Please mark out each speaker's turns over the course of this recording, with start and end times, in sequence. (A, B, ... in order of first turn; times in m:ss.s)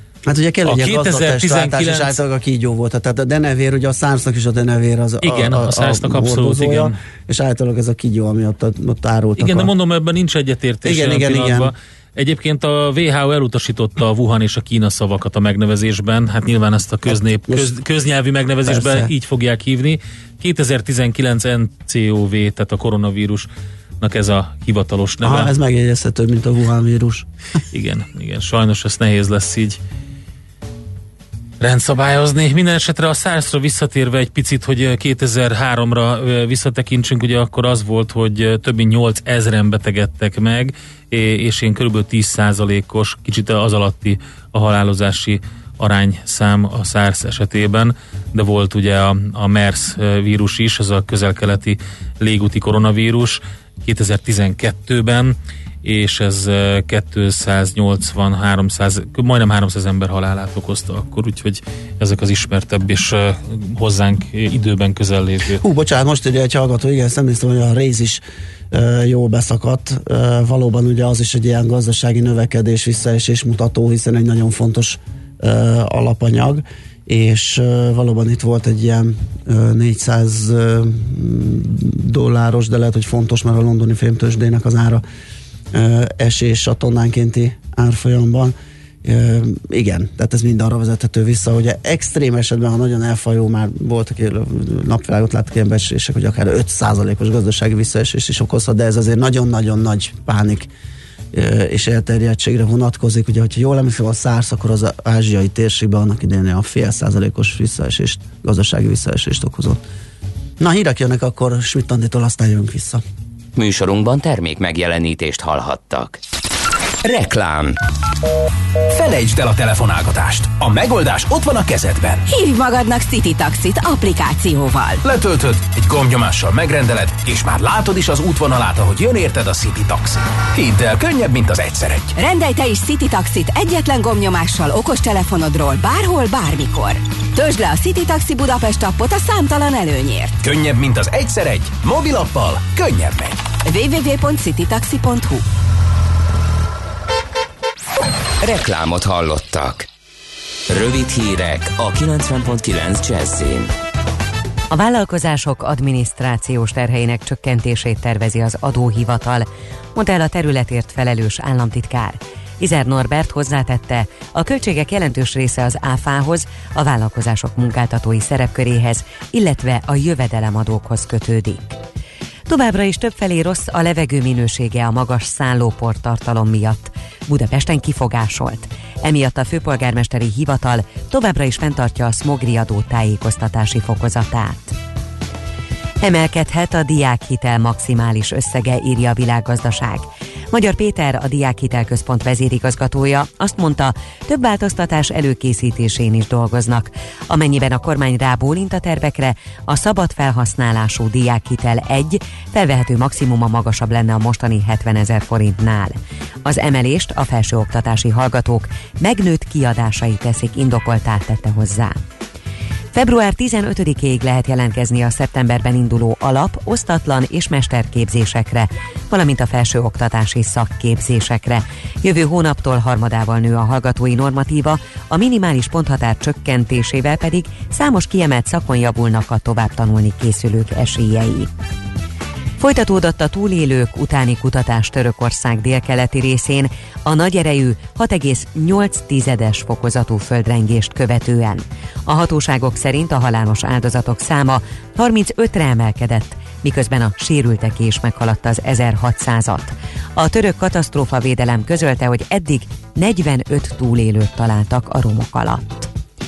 0:00.2-0:09.7 A
0:00.6-0:02.1 B
0:05.2-0:06.9 B
0:09.4-0:23.5 B
0:10.8-0:11.7 A
0:17.1-0:17.7 A
0:18.6-0:19.1 A
0:24.0-0:25.5 B
0:25.2-0:27.3 A
0:27.7-0:29.8 B
0:31.6-1:05.6 B
1:05.6-1:25.0 A
1:25.7-1:40.7 A
1:41.3-1:49.8 A
1:50.6-1:53.0 A
1:53.6-1:56.2 C
1:57.0-1:57.8 C
1:58.9-2:02.2 D
2:02.3-2:05.0 E
2:05.0-2:12.1 D
2:12.2-2:20.4 E
2:20.4-2:23.4 D
2:23.6-2:25.4 E
2:28.4-2:29.9 C
2:30.7-2:33.7 C
2:34.7-2:51.8 F
2:52.5-3:04.8 F
3:06.0-3:32.0 F
3:32.9-3:51.5 F
3:52.6-4:15.9 F